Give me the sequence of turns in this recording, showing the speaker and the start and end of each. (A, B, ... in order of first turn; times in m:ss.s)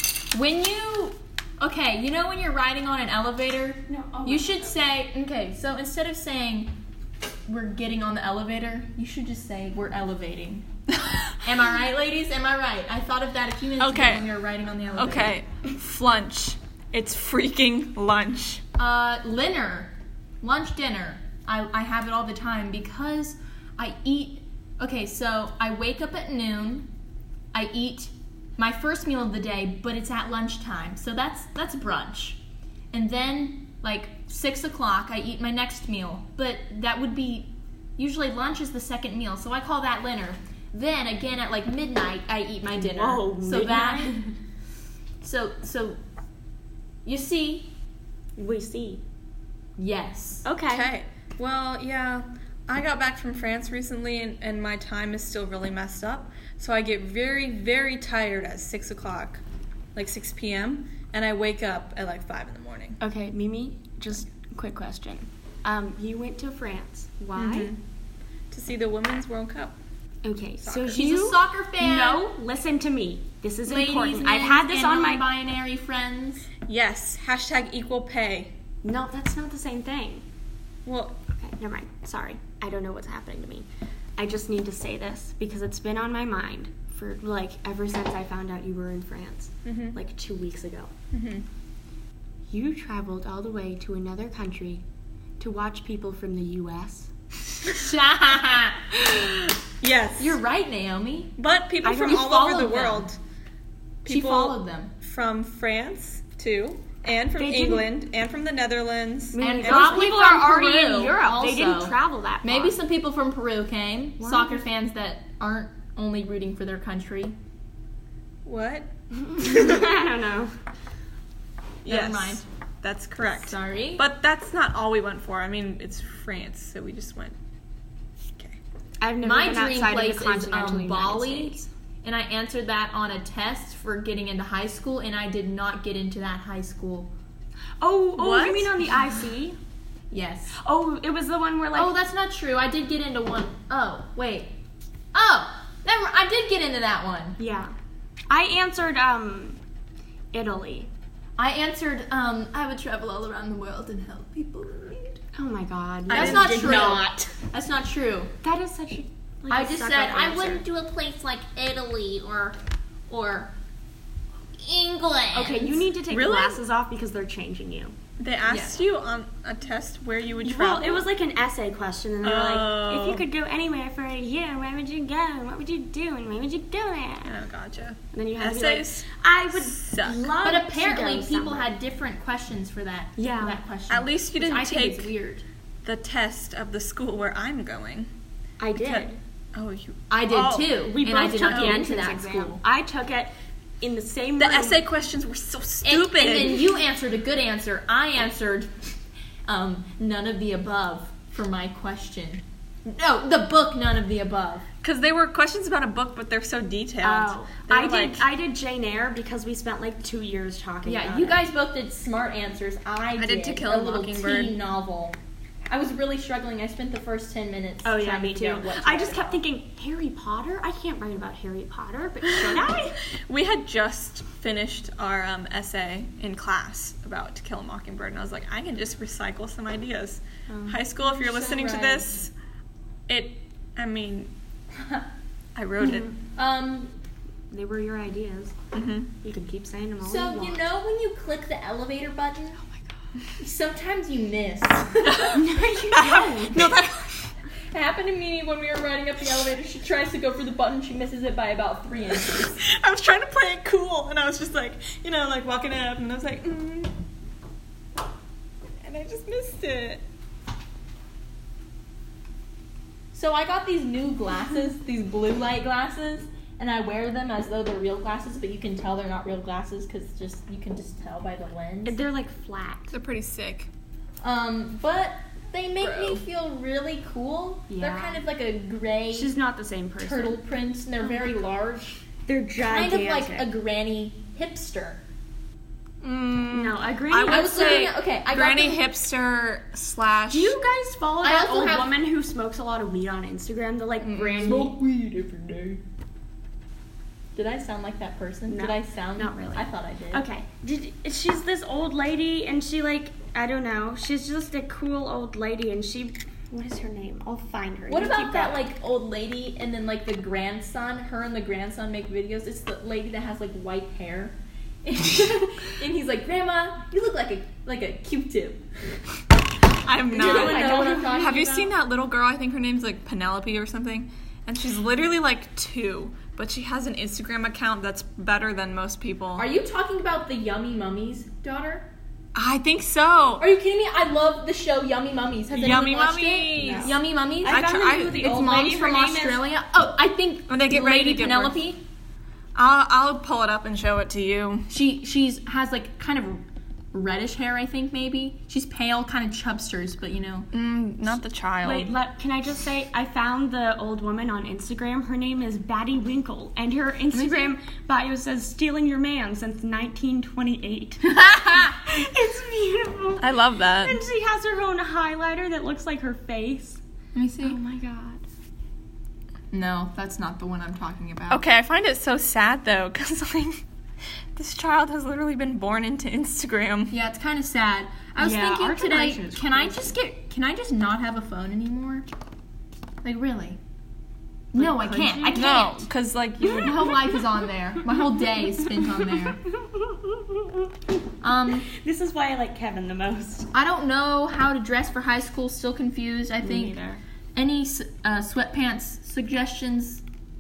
0:00.3-0:06.7 A
0:03.9-0:04.9 B
0:07.5-0:10.7 A
0:10.9-0:11.4 C
0:11.4-0:15.4 A
0:13.8-0:14.3 C
0:14.9-0:18.6 C
0:18.8-0:26.9 A
0:27.5-0:32.4 A
0:32.9-0:44.2 A
0:42.7-0:44.3 B
0:45.2-0:46.0 A
0:47.1-0:47.7 A
0:48.4-0:49.0 B
0:49.8-0:50.5 A
0:50.4-0:50.9 B
0:50.7-0:59.4 C
1:00.0-1:03.0 C
1:03.0-1:07.7 B
1:07.4-1:07.8 C
1:08.5-1:09.8 C
1:10.2-1:15.3 B
1:10.6-1:11.1 C
1:10.9-1:12.2 A
1:13.6-1:16.5 A
1:16.6-1:18.5 C
1:18.8-1:20.2 B
1:20.9-1:21.2 C
1:21.3-1:30.9 B
1:29.6-1:30.0 C
1:31.1-1:31.4 C
1:32.5-1:34.8 B
1:35.4-1:37.1 B
1:37.7-1:39.3 A
1:39.8-1:40.4 C
1:40.2-1:41.3 A
1:41.4-1:43.2 C
1:41.8-1:42.7 B
1:42.2-1:43.1 A
1:44.0-1:50.1 C
1:44.1-1:44.9 A
1:47.4-1:47.9 B
1:49.3-1:52.8 B
1:49.4-1:57.4 A
1:54.2-1:54.6 B
1:58.4-1:58.9 C
1:59.1-2:00.5 B
2:01.8-2:07.4 C
2:01.8-2:02.4 A
2:03.4-2:04.1 A
2:09.0-2:11.7 B
2:09.2-2:17.1 A
2:17.8-2:19.6 B
2:18.2-2:18.7 C
2:20.1-2:20.6 A
2:20.6-2:21.9 B
2:21.8-2:24.5 A
2:25.1-2:27.4 A
2:27.4-2:27.7 B
2:28.3-2:29.6 B
2:30.3-2:30.9 B
2:31.4-2:35.2 A
2:35.4-2:37.3 B
2:36.1-2:37.0 C
2:36.1-2:38.3 A
2:38.4-2:40.6 B
2:39.5-2:42.6 A
2:43.1-2:43.5 A
2:44.6-2:45.8 A
2:45.3-2:48.0 B
2:46.1-2:46.6 C
2:48.2-2:51.1 C
2:48.5-2:48.8 A
2:50.4-2:57.4 B
2:52.2-2:53.3 C
2:57.2-2:59.0 C
2:58.1-3:01.7 B
2:59.6-3:00.3 C
3:00.4-3:05.4 A
3:03.2-3:03.6 B
3:03.9-3:05.1 C
3:05.8-3:08.1 C
3:08.6-3:09.2 B
3:08.8-3:10.8 C
3:10.1-3:12.6 A
3:10.7-3:14.9 B
3:11.4-3:11.9 C
3:14.4-3:16.6 C
3:15.8-3:18.9 A
3:19.5-3:24.7 A
3:24.8-3:28.2 C
3:27.0-3:31.4 B
3:30.8-3:35.2 A
3:33.2-3:34.6 C
3:35.7-3:39.4 A
3:37.8-3:43.0 B
3:43.3-3:52.3 C
3:50.5-3:50.8 B
3:51.0-3:52.2 A
3:53.1-3:54.3 C
3:54.8-3:55.0 A
3:55.6-3:56.1 C
3:55.8-3:56.1 B
3:56.4-3:56.9 A
3:57.5-3:58.6 B
3:58.7-3:59.1 C
3:59.2-4:00.6 B
4:00.0-4:02.6 A
4:03.4-4:05.4 A
4:05.1-4:07.3 C
4:05.3-4:06.7 B
4:07.7-4:12.6 A
4:12.3-4:16.9 C
4:18.8-4:20.0 C
4:23.1-4:32.0 A
4:31.8-4:32.9 B
4:32.9-4:33.7 C
4:34.2-4:39.3 A
4:35.8-4:36.2 C
4:37.7-4:38.2 B
4:39.1-4:40.4 B
4:40.0-4:42.0 A
4:41.0-4:41.3 B
4:42.3-4:43.5 B
4:42.7-4:45.0 A
4:46.0-4:50.6 C
4:46.5-4:47.9 B
4:47.2-4:48.8 A
4:50.3-4:54.8 B
4:51.2-4:51.9 A
4:54.0-4:54.6 C
4:54.4-4:55.8 A
4:57.4-5:00.2 A
4:58.5-5:08.6 B
5:07.9-5:18.6 A
5:19.8-5:29.5 C
5:20.1-5:21.7 A
5:20.1-5:21.2 B
5:29.4-5:31.9 A
5:32.4-5:33.5 C
5:33.4-5:41.8 A
5:35.5-5:38.3 C
5:36.6-5:39.5 B
5:40.5-5:41.6 C
5:42.6-5:44.7 C
5:44.7-5:50.5 A
5:50.5-5:51.9 C
5:51.6-6:06.8 B
5:57.1-5:57.6 A
6:01.0-6:01.8 A
6:03.2-6:04.0 C
6:07.2-6:07.6 A
6:07.4-6:08.2 B
6:09.5-6:11.4 A
6:11.3-6:13.6 C
6:14.3-6:17.0 C
6:16.9-6:22.1 A
6:18.2-6:20.0 B
6:23.0-6:23.6 A
6:24.5-6:25.6 B
6:24.5-6:25.8 A
6:25.4-6:27.0 C
6:26.4-6:27.2 B
6:26.6-6:29.4 A
6:29.6-6:30.6 B
6:31.2-6:31.7 A
6:31.7-6:33.5 B
6:33.5-6:36.8 A
6:36.4-6:37.0 B
6:37.4-6:40.0 A